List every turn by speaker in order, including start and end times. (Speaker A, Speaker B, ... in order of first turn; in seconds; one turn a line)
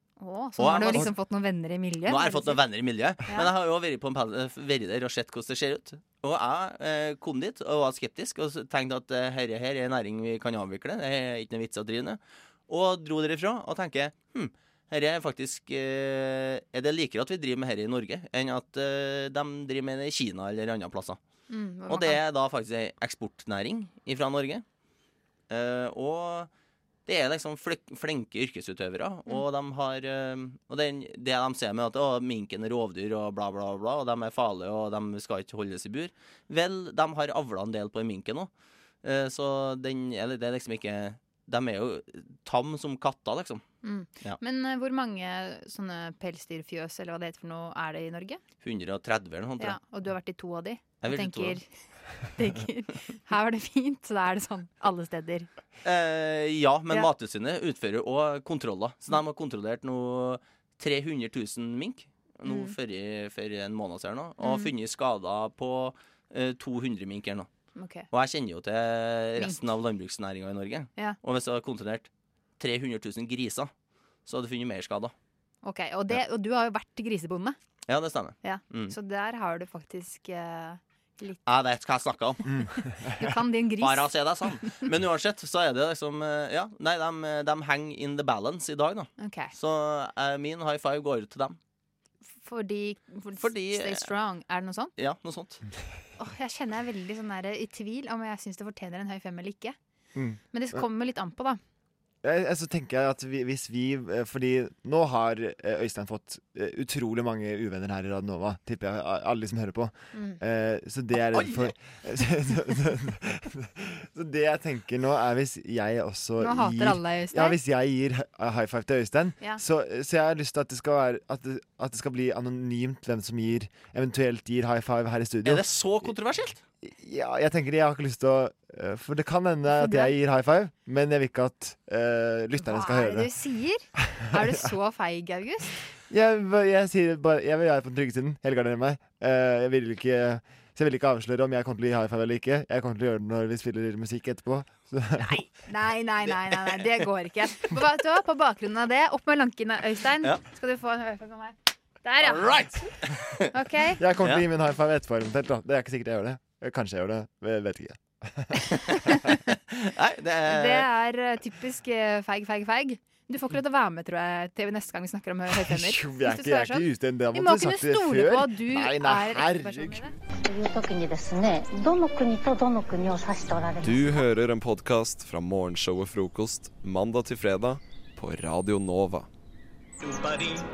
Speaker A: 0.2-2.6
Speaker B: 0.6-1.1
Speaker B: 2.0-21.2
Speaker A: 3.2-3.5
Speaker A: 21.5-22.2
Speaker B: 21.9-24.6
Speaker B: 25.5-26.5
Speaker B: 27.1-38.5
Speaker B: 39.0-43.6
Speaker A: 43.8-48.4
Speaker B: 48.6-49.8
Speaker A: 49.6-51.7
Speaker B: 51.0-51.6
Speaker A: 52.4-55.5
Speaker B: 55.8-67.5
Speaker A: 62.5-62.7
Speaker A: 64.4-64.7
Speaker A: 67.7-68.1
Speaker B: 68.1-73.7
Speaker A: 70.9-71.2
Speaker B: 74.2-75.1
Speaker A: 75.6-77.5
Speaker B: 77.9-79.0
Speaker A: 78.4-81.4
Speaker B: 81.4-82.5
Speaker C: 82.5-83.3
Speaker A: 83.2-84.8
Speaker B: 83.8-91.6
Speaker A: 89.2-89.5
Speaker A: 92.3-94.9
Speaker B: 93.4-94.1
Speaker B: 95.0-95.6
Speaker A: 96.2-99.8
Speaker C: 100.1-100.8
Speaker A: 100.5-101.6
Speaker C: 102.2-125.8
Speaker A: 110.1-110.4
Speaker B: 111.4-111.6
Speaker A: 116.4-117.6
Speaker B: 125.4-126.6
Speaker C: 126.8-133.3
Speaker A: 129.7-130.1
Speaker A: 132.6-135.7
Speaker C: 134.3-134.7
Speaker C: 136.1-145.4
Speaker A: 145.2-152.9
Speaker B: 152.2-153.4
Speaker A: 153.5-154.0
Speaker C: 154.0-158.7
Speaker B: 154.2-154.4
Speaker B: 159.5-160.9
Speaker A: 160.4-170.2
Speaker C: 165.5-170.1
Speaker D: 170.4-174.2
Speaker E: 173.8-179.3